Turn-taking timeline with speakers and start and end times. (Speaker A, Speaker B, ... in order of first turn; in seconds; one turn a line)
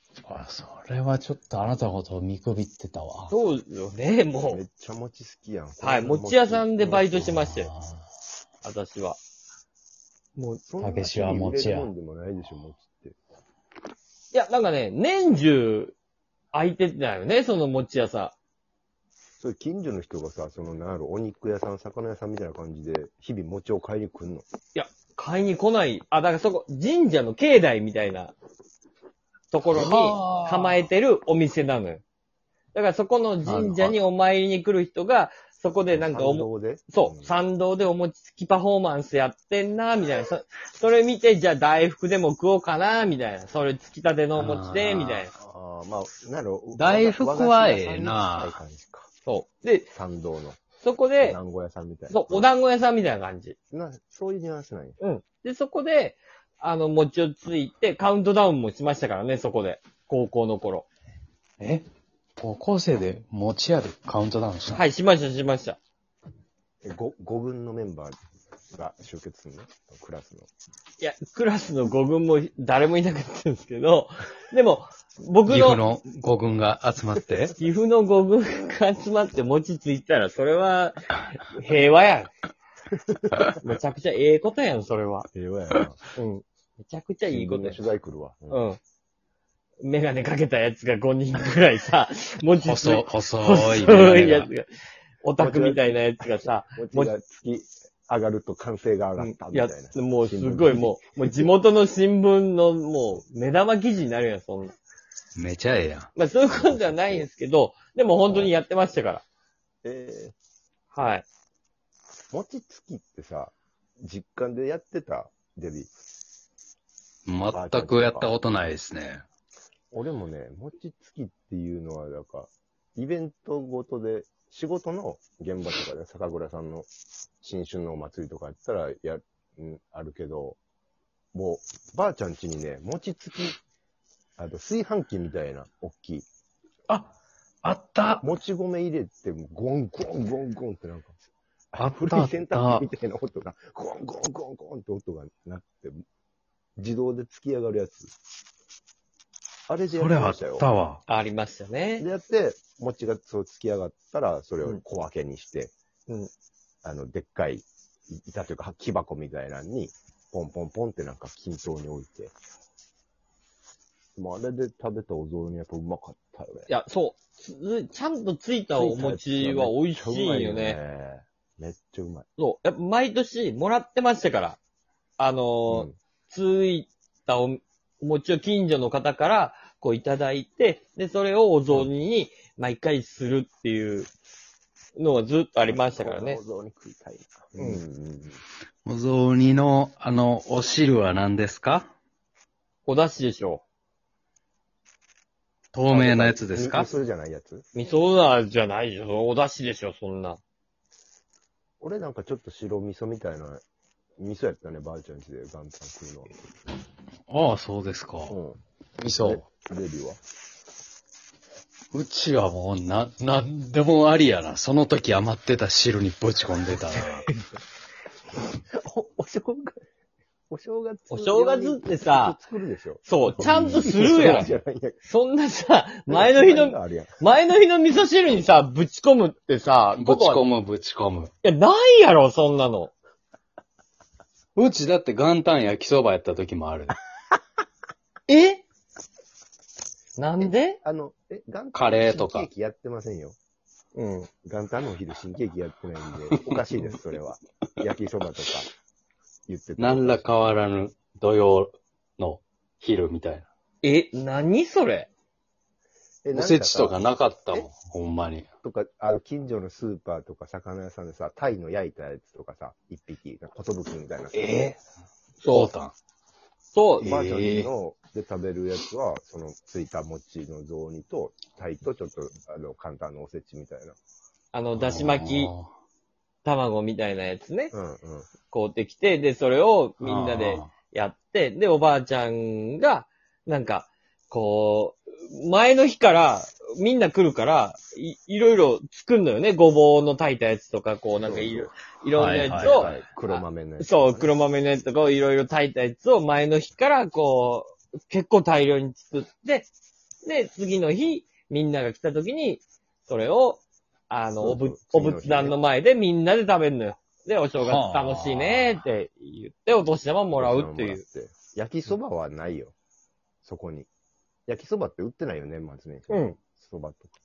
Speaker A: 0.3-3.3
Speaker B: 3.3-4.6
Speaker C: 4.5-7.3
Speaker B: 5.8-7.7
Speaker A: 7.2-8.0
Speaker B: 8.6-9.2
Speaker B: 10.4-10.6
Speaker C: 10.7-13.2
Speaker A: 10.8-11.9
Speaker B: 14.3-16.0
Speaker B: 16.5-18.4
Speaker C: 19.4-24.5
Speaker B: 24.8-28.4
Speaker B: 29.5-32.0
Speaker A: 29.6-30.9
Speaker B: 32.7-45.3
Speaker A: 33.5-34.0
Speaker C: 35.9-37.3
Speaker A: 44.4-45.3
Speaker C: 45.4-49.1
Speaker A: 46.8-48.6
Speaker B: 49.3-49.9
Speaker C: 49.9-50.6
Speaker B: 50.8-51.4
Speaker C: 51.2-52.5
Speaker B: 52.1-53.6
Speaker C: 53.7-55.0
Speaker B: 55.0-60.9
Speaker A: 61.6-61.9
Speaker A: 62.4-64.8
Speaker B: 64.7-65.8
Speaker C: 66.8-68.2
Speaker C: 68.7-70.5
Speaker B: 71.0-75.8
Speaker A: 75.5-77.5
Speaker B: 77.6-82.3
Speaker C: 83.1-83.5
Speaker B: 83.6-85.3
Speaker C: 85.3-86.1
Speaker B: 86.2-87.9
Speaker C: 87.3-88.6
Speaker B: 88.5-88.8
Speaker B: 89.8-94.7
Speaker A: 92.6-94.5
Speaker B: 95.2-97.1
Speaker C: 95.4-95.9
Speaker C: 96.7-101.4
Speaker B: 99.2-104.8
Speaker A: 105.4-106.1
Speaker B: 106.2-109.2
Speaker C: 106.5-107.3
Speaker C: 109.8-110.3
Speaker B: 110.9-111.3
Speaker C: 112.3-115.9
Speaker A: 117.3-119.2
Speaker C: 117.5-118.3
Speaker C: 119.9-126.9
Speaker C: 127.4-130.6
Speaker C: 131.3-133.6
Speaker C: 134.4-136.3
Speaker A: 137.6-138.3
Speaker C: 138.2-141.2
Speaker C: 141.7-146.0
Speaker A: 141.8-142.9
Speaker C: 146.8-148.1
Speaker C: 149.7-150.7
Speaker A: 149.9-151.0
Speaker B: 151.1-152.1
Speaker C: 152.0-155.7
Speaker C: 156.8-162.3
Speaker C: 164.2-166.7
Speaker B: 166.7-170.8
Speaker C: 168.8-172.3
Speaker B: 172.4-174.6
Speaker B: 175.2-184.1
Speaker C: 175.7-175.9
Speaker B: 185.0-186.4
Speaker C: 185.7-188.4
Speaker B: 187.6-187.8
Speaker A: 188.8-191.9
Speaker B: 192.9-193.6
Speaker A: 195.7-196.9
Speaker C: 195.9-197.7
Speaker B: 197.8-200.4
Speaker C: 201.8-203.6
Speaker C: 204.2-206.3
Speaker A: 207.3-208.4
Speaker C: 208.3-210.2
Speaker A: 209.0-209.4
Speaker A: 211.9-217.3
Speaker C: 218.7-219.8
Speaker C: 220.5-225.0
Speaker B: 221.1-222.4
Speaker B: 223.1-230.4
Speaker A: 223.8-224.5
Speaker C: 226.1-227.2
Speaker A: 230.0-231.3
Speaker B: 231.4-232.9
Speaker A: 234.6-237.0
Speaker B: 238.3-238.6
Speaker B: 240.2-240.8
Speaker C: 240.4-243.4
Speaker A: 241.7-242.5
Speaker B: 243.9-244.3
Speaker C: 244.4-248.7
Speaker A: 246.3-246.9
Speaker C: 249.5-250.3
Speaker A: 249.8-253.5
Speaker B: 253.8-255.1
Speaker C: 256.2-257.0
Speaker A: 256.3-258.5
Speaker C: 258.6-264.4
Speaker A: 264.3-264.8
Speaker B: 265.4-265.7
Speaker A: 265.5-265.9
Speaker B: 266.7-267.1
Speaker A: 267.0-267.7
Speaker C: 267.0-274.0
Speaker B: 274.5-275.5
Speaker A: 274.8-275.7
Speaker B: 276.4-277.7
Speaker C: 277.7-278.3
Speaker B: 278.5-299.7
Speaker A: 280.0-280.7
Speaker C: 291.2-291.7
Speaker A: 292.1-293.0
Speaker C: 292.6-294.4
Speaker B: 300.2-311.0
Speaker C: 304.4-305.6
Speaker A: 307.6-308.8
Speaker C: 310.3-312.7
Speaker C: 313.4-313.9
Speaker C: 314.5-317.1
Speaker B: 316.1-316.4